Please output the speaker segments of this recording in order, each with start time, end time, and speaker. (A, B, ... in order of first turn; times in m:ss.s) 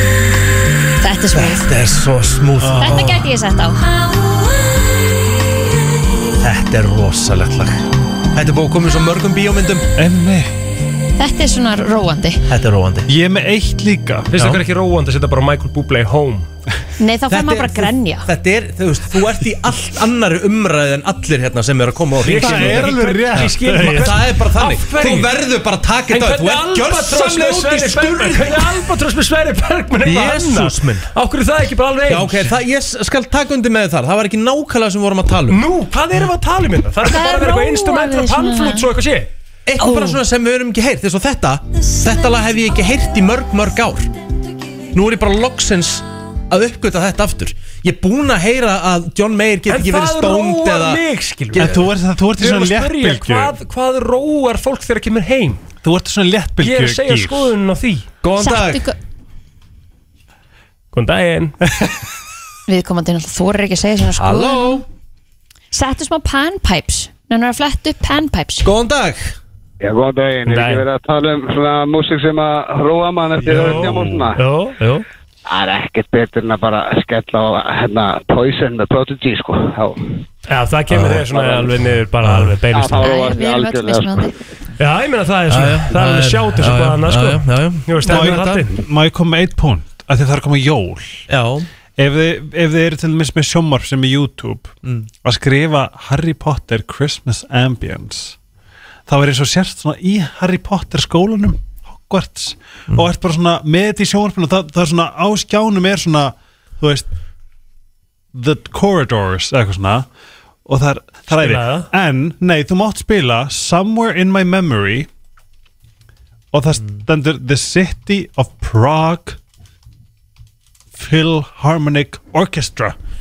0:01.0-0:01.6 A
0:01.3-0:03.2 B
0:02.6-0:03.2 C
0:02.8-0:03.8 A
0:06.4-0:09.9 B
0:10.0-0:10.5 C
0:11.2-0:12.4 A
0:12.5-0:13.1 B
0:13.1-0:14.3 C
0:14.3-0:16.5 D
0:14.3-0:14.6 B
0:17.0-0:18.3 A
0:17.3-0:28.9 B
0:22.2-0:25.3 D
0:22.3-0:24.2 C
0:26.1-0:32.5 D
0:30.0-0:31.1 B
0:32.1-0:35.6 B
0:35.5-0:39.3 D
0:37.0-0:38.8 A
0:39.6-0:44.1 B
0:44.9-0:51.9 B
0:49.7-0:55.6 D
0:51.5-0:53.5 C
0:55.8-0:57.5 C
0:56.6-0:58.1 D
0:58.2-0:58.8 B
0:58.4-0:59.0 A
1:00.9-1:01.6 D
1:02.7-1:04.8 A
1:04.2-1:04.8 B
1:05.7-1:08.7 A
1:08.6-1:09.4 B
1:09.8-1:14.4 E
1:10.5-1:10.8 D
1:13.4-1:14.3 C
1:13.4-1:15.0 D
1:15.4-1:20.0 E
1:20.5-1:23.1 D
1:20.9-1:21.2 B
1:21.3-1:21.8 E
1:22.2-1:22.6 B
1:22.7-1:24.3 E
1:22.9-1:24.3 A
1:24.8-1:28.7 D
1:25.5-1:28.7 B
1:28.0-1:31.2 C
1:31.3-1:31.7 B
1:32.0-1:38.4 C
1:34.8-1:35.1 B
1:39.1-1:47.1 C
1:48.3-1:50.1 C
1:50.6-1:55.1 C
1:51.3-1:51.9 D
1:56.5-1:59.4 C
2:01.0-2:03.0 C